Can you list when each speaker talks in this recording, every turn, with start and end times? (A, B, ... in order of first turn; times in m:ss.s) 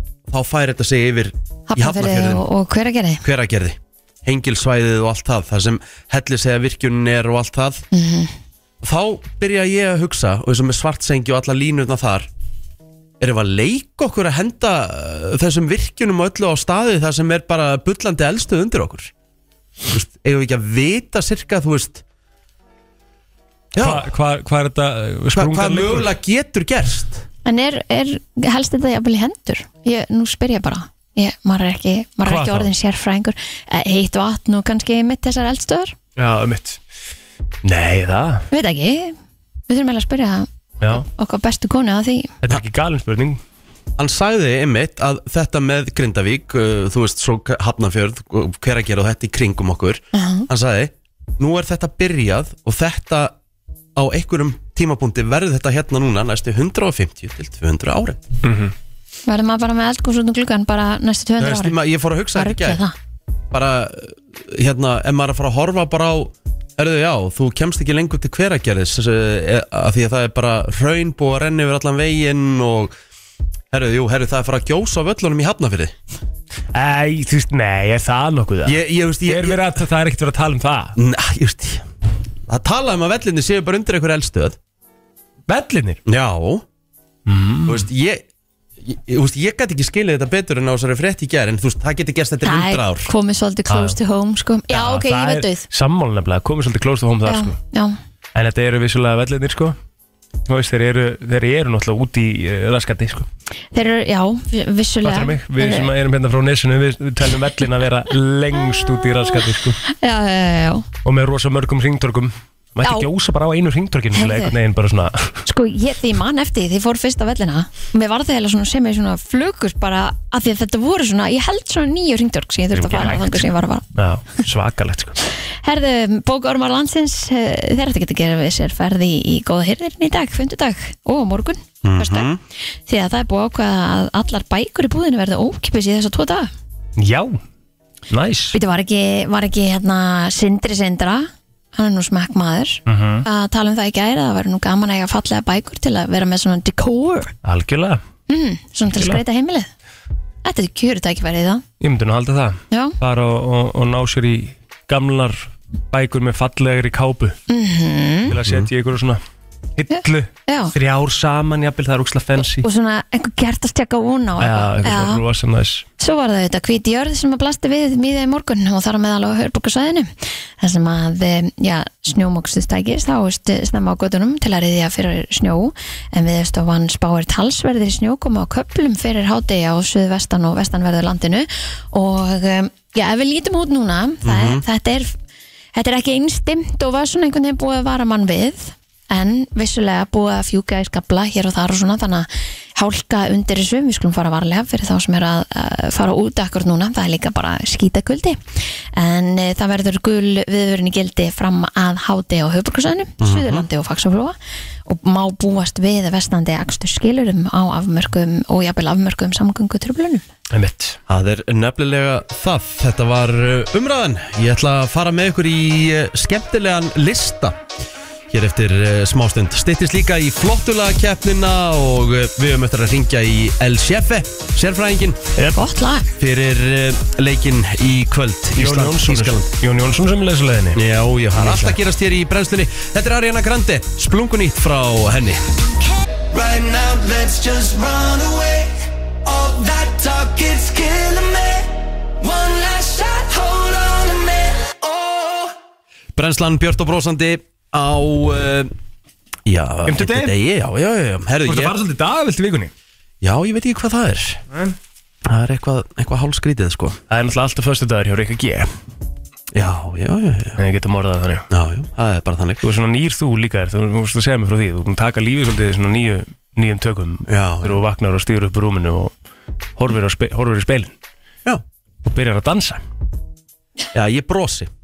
0:00.3-0:02.4 A
0:01.7-0:03.2 B
0:03.2-0:07.8 A
0:07.9-0:08.3 B
0:08.8-0:12.3 A
0:13.2-0:19.1 A
0:19.9-0:22.0 A
0:23.7-0:24.1 A
0:23.8-0:26.1 C
0:25.3-0:27.2 A
0:27.4-0:35.9 B
0:32.2-0:32.7 C
0:36.2-0:36.8 C
0:37.6-0:38.4 C
0:38.5-0:39.2 B
0:39.7-0:42.3 B
0:42.4-0:43.4 C
0:44.0-0:53.3 A
0:50.1-0:50.5 B
0:54.0-0:58.2 A
0:58.4-0:58.7 C
0:59.2-1:01.7 B
1:01.4-1:02.8 A
1:02.3-1:02.9 B
1:03.5-1:12.9 A
1:13.7-1:15.9 A
1:16.7-1:20.9 C
1:18.6-1:19.8 A
1:21.0-1:21.8 A
1:22.5-1:24.6 A
1:25.5-1:26.0 C
1:26.0-1:26.6 A
1:27.2-1:27.9 C
1:27.6-1:28.2 A
1:28.8-1:33.1 A
1:32.4-1:35.6 B
1:33.7-1:34.0 C
1:34.7-1:37.6 C
1:37.2-1:38.0 B
1:38.3-1:39.8 C
1:40.4-1:43.3 C
1:43.7-1:45.9 B
1:45.0-1:49.8 C
1:49.8-1:50.9 B
1:51.0-1:55.4 C
1:52.8-1:53.1 B
1:54.1-1:54.5 B
1:55.4-2:03.8 B
2:02.7-2:05.2 C
2:05.6-2:12.3 B
2:11.8-2:12.4 A
2:12.8-2:16.5 B
2:17.0-2:17.4 C
2:18.1-2:18.6 C
2:18.5-2:27.3 B
2:22.8-2:23.2 C
2:27.4-2:28.0 C
2:28.3-2:29.7 B
2:28.9-2:29.2 C
2:30.4-2:31.6 B
2:31.8-2:37.4 C
2:32.7-2:33.0 B
2:37.5-2:38.3 B
2:38.3-2:39.2 C
2:39.8-2:42.6 C
2:39.9-2:40.7 B
2:42.4-2:45.2 B
2:44.4-2:45.8 C
2:46.0-3:05.1 B
3:04.2-3:04.6 A
3:05.7-3:30.2 B
3:23.2-3:23.6 A
3:30.5-3:31.0 C
3:31.1-3:37.6 A
3:38.3-3:45.2 A
3:45.4-3:45.7 C
3:45.5-3:46.1 B
3:46.2-3:49.5 A
3:48.6-3:51.8 C
3:50.7-3:55.4 A
3:56.3-3:58.7 D
3:59.2-4:05.5 D
4:06.2-4:08.7 A
4:09.4-4:11.7 A
4:09.9-4:10.3 C
4:11.4-4:12.7 C
4:13.2-4:14.4 A
4:15.2-4:17.0 A
4:17.1-4:18.7 C
4:19.5-4:20.6 A
4:20.6-4:21.5 C
4:21.5-4:22.6 A
4:22.6-4:29.1 C
4:27.3-4:27.8 A
4:29.8-4:30.9 C
4:32.0-4:32.8 C
4:33.9-4:34.7 A